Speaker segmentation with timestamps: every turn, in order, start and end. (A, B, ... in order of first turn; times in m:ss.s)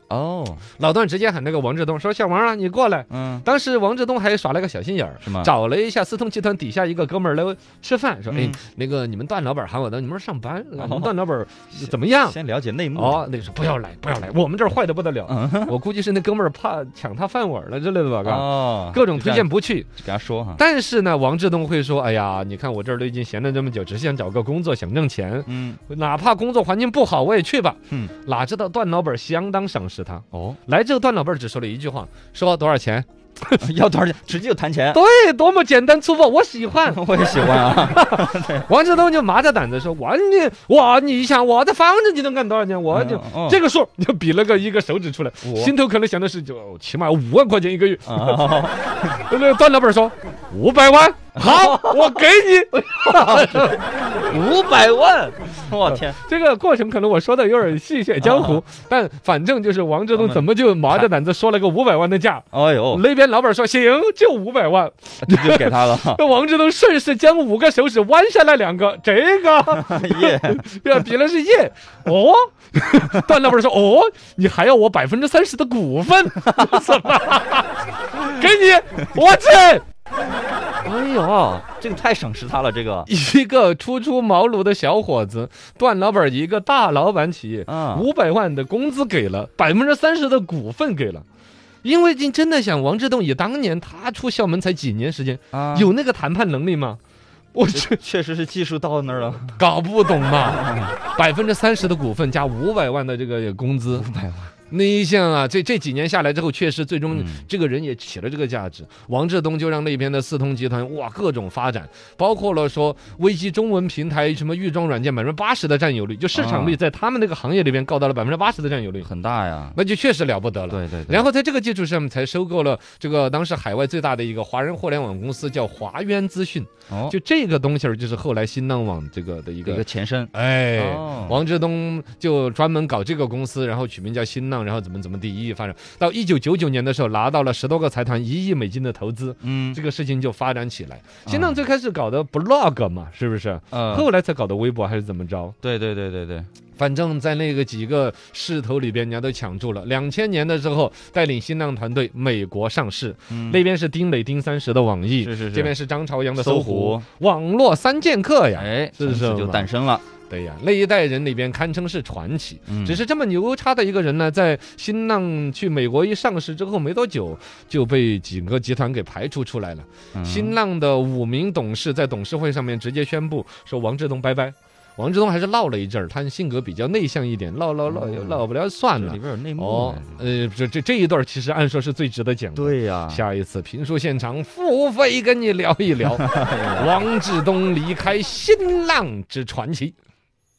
0:00.1-0:00.6 A
0:00.8-0:12.4 B
0:03.1-0:03.4 A
0:05.2-0:05.5 A
0:08.3-0:08.6 A
0:10.8-0:11.1 A
0:11.7-0:13.2 A
0:12.9-0:19.9 B
0:15.3-0:15.7 A
0:18.2-0:20.6 A
0:20.6-0:33.6 B
0:25.5-0:25.8 A
0:30.3-0:30.6 A
0:33.6-0:35.0 A
0:34.9-1:19.8 B
0:36.8-0:38.7 A
0:42.9-0:43.6 A
0:45.4-0:45.7 A
0:48.0-0:48.9 A
0:51.4-0:52.0 A
0:53.0-0:56.2 A
1:00.1-1:01.1 A
1:02.5-1:03.0 A
1:05.2-1:06.2 A
1:09.7-1:10.6 A
1:20.8-1:21.7 B
1:21.7-1:23.1 A
1:23.1-1:31.2 B
1:27.7-1:28.1 A
1:31.8-1:37.0 B
1:35.5-1:35.9 A
1:37.5-1:38.0 B
1:37.7-1:39.6 A
1:39.6-1:44.0 B
1:40.4-1:41.0 A
1:43.9-1:44.5 A
1:44.7-1:59.1 B
1:47.1-1:47.4 A
1:56.3-1:56.8 A
1:59.0-1:59.8 A
1:59.7-2:25.5 B
2:00.7-2:01.2 A
2:06.9-2:07.2 A
2:09.6-2:11.4 A
2:19.4-2:19.8 A
2:21.2-2:21.6 A
2:23.7-2:24.1 A
2:25.6-2:26.5 A
2:26.8-2:39.7 B
2:33.3-2:33.6 A
2:35.2-2:35.7 A
2:36.3-2:37.0 A
2:38.6-2:40.0 A
2:40.3-3:09.9 B
2:42.7-2:43.0 A
2:50.1-2:50.5 A
2:57.9-2:58.4 A
2:59.0-3:00.2 A
3:02.6-3:03.2 A
3:06.2-3:07.0 A